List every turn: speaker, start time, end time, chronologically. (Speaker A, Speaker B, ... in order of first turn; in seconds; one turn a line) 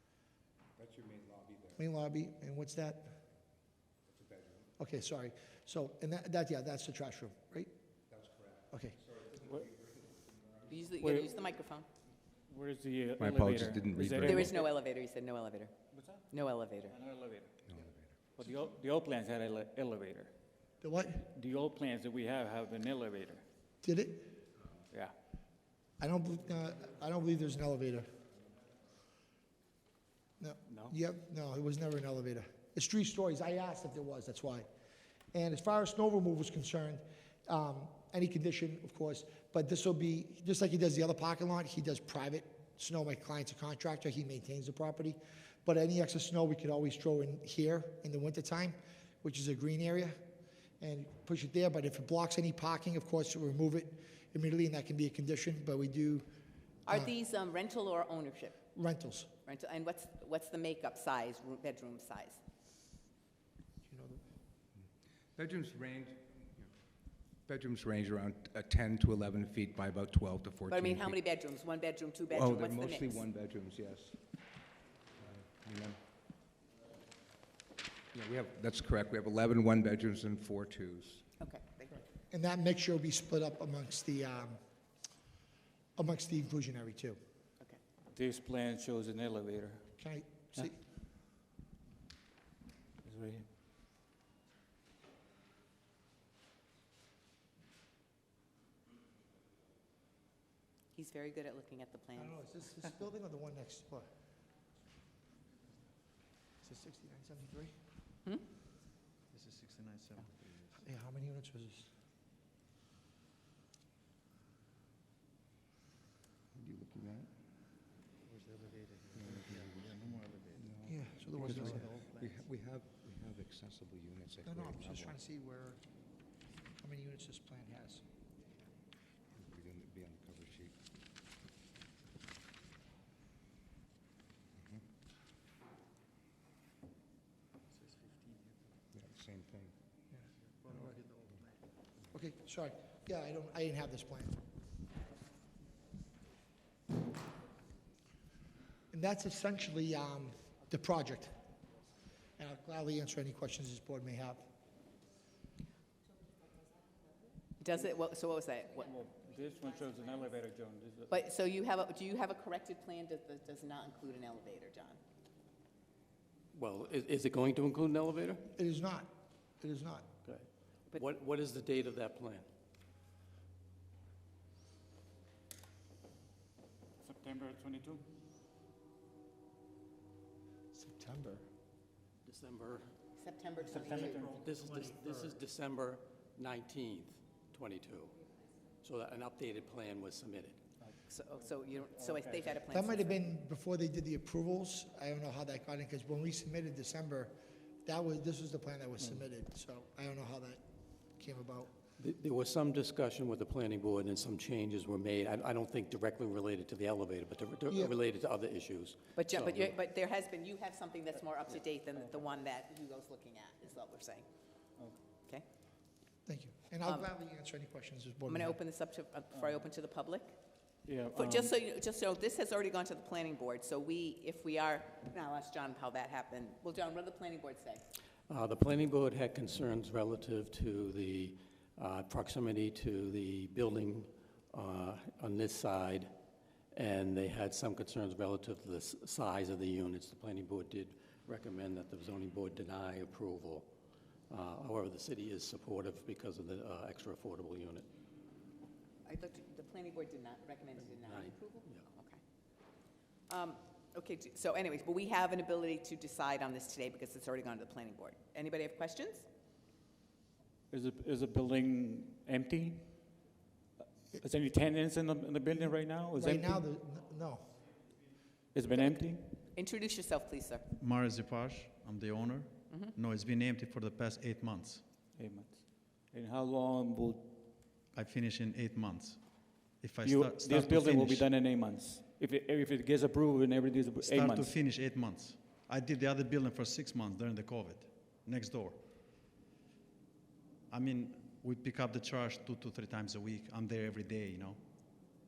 Speaker A: 0.8-1.8
Speaker B: 1.8-3.2
Speaker A: 4.1-4.7
Speaker B: 4.8-7.7
Speaker A: 8.1-10.9
Speaker B: 8.7-9.0
Speaker C: 10.7-11.9
Speaker D: 11.0-11.3
Speaker D: 12.5-14.7
Speaker A: 13.2-14.6
Speaker C: 14.2-15.7
Speaker D: 15.9-16.2
Speaker C: 16.3-16.9
Speaker D: 16.9-17.5
Speaker A: 17.7-18.1
Speaker D: 18.4-20.3
Speaker B: 20.8-21.3
Speaker D: 21.3-23.4
Speaker B: 23.8-24.4
Speaker B: 26.0-28.1
Speaker B: 30.4-34.7
Speaker D: 30.7-30.9
Speaker B: 35.3-50.2
Speaker B: 50.8-56.3
Speaker C: 56.9-58.6
Speaker B: 58.7-59.3
Speaker C: 59.4-62.4
Speaker B: 63.8-64.2
Speaker A: 65.3-66.7
Speaker A: 67.5-71.2
Speaker C: 70.7-73.2
Speaker A: 72.3-74.2
Speaker A: 75.2-76.0
Speaker A: 78.1-81.2
Speaker C: 81.4-82.0
Speaker B: 82.3-84.6
Speaker B: 86.0-87.2
Speaker D: 88.1-89.9
Speaker B: 90.0-90.8
Speaker D: 93.0-93.5
Speaker C: 100.9-102.4
Speaker B: 102.2-104.1
Speaker B: 106.6-107.7
Speaker E: 109.3-110.8
Speaker B: 110.8-111.9
Speaker A: 116.5-117.3
Speaker E: 118.3-120.7
Speaker A: 119.2-120.1
Speaker A: 120.6-125.2
Speaker B: 120.8-121.9
Speaker E: 121.6-122.2
Speaker B: 124.5-125.8
Speaker B: 126.8-128.0
Speaker A: 129.3-130.8
Speaker A: 134.6-134.8
Speaker A: 138.9-139.7
Speaker B: 140.1-140.9
Speaker B: 142.1-144.4
Speaker B: 148.9-151.3
Speaker B: 152.4-154.4
Speaker C: 157.6-158.9
Speaker D: 158.8-161.2
Speaker C: 161.1-165.0
Speaker F: 166.5-168.4
Speaker B: 168.5-170.1
Speaker F: 170.2-172.5
Speaker D: 177.0-178.0
Speaker B: 180.7-181.4
Speaker F: 182.2-182.9
Speaker C: 183.2-184.3
Speaker D: 183.7-184.5
Speaker F: 183.8-188.1
Speaker B: 184.6-185.4
Speaker F: 188.8-190.6
Speaker C: 191.1-193.3
Speaker D: 191.8-192.6
Speaker B: 192.7-197.3
Speaker B: 197.8-200.6
Speaker B: 201.1-201.7
Speaker F: 202.0-209.8
Speaker C: 209.1-214.2
Speaker D: 212.0-212.2
Speaker B: 216.2-218.6
Speaker C: 218.3-220.3
Speaker D: 220.8-221.5
Speaker C: 221.2-227.8
Speaker F: 228.3-236.1
Speaker F: 236.7-243.7
Speaker F: 244.3-247.9
Speaker C: 249.1-252.2
Speaker F: 251.0-251.8
Speaker C: 253.3-259.2
Speaker D: 260.7-263.1
Speaker D: 264.2-266.7
Speaker B: 266.1-267.6
Speaker D: 268.5-269.4
Speaker C: 269.5-270.6
Speaker E: 270.8-274.8
Speaker C: 272.7-272.9
Speaker D: 275.1-277.4
Speaker E: 277.9-281.2
Speaker D: 280.0-284.6
Speaker E: 284.0-288.8
Speaker E: 290.7-295.1